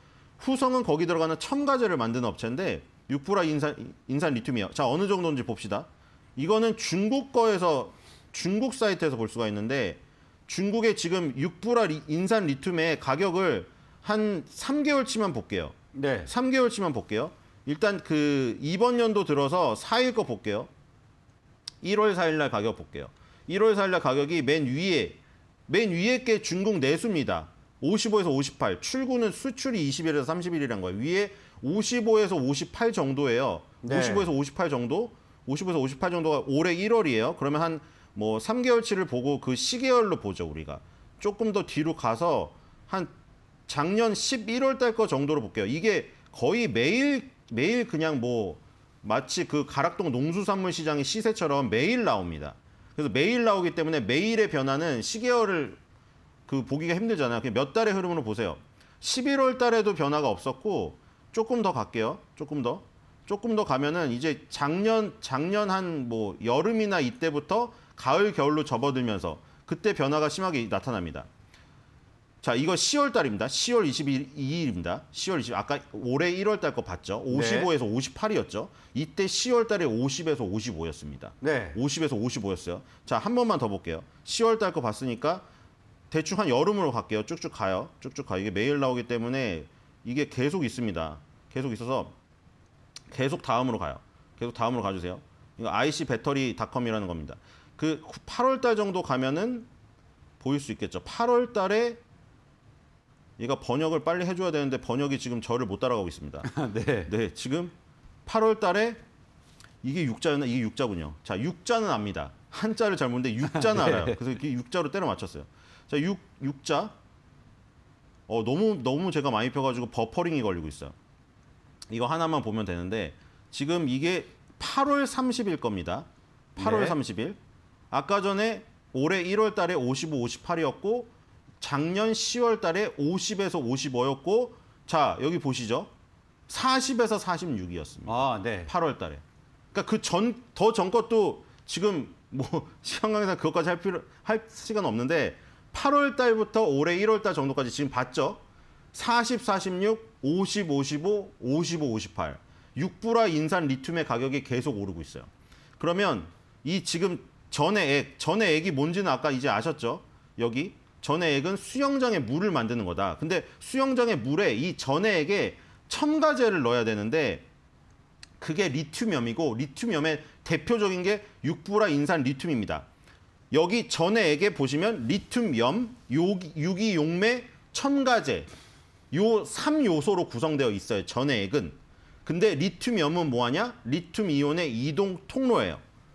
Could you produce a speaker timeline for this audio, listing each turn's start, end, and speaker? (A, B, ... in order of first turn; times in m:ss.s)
0:00.4-0:20.7 A
0:15.9-0:16.3 B
0:21.8-0:43.1 A
0:33.8-0:34.3 B
0:43.7-0:55.8 A
0:56.5-1:11.3 A
1:12.4-1:25.4 A
1:17.3-1:17.7 B
1:21.4-1:21.8 B
1:26.1-1:32.1 A
1:33.1-1:39.7 A
1:40.4-1:42.0 A
1:43.4-1:46.5 A
1:46.4-1:47.1 B
1:47.0-1:47.7 A
1:48.2-1:49.0 A
1:49.8-1:56.9 A
1:53.4-1:54.2 B
1:58.3-2:00.9 A
2:01.9-2:07.4 A
2:06.6-2:07.0 B
2:07.9-2:15.9 A
2:16.5-2:28.4 A
2:18.0-2:18.7 B
2:28.9-2:47.4 A
2:48.4-2:52.8 A
2:53.5-2:58.5 A
2:59.1-3:05.8 A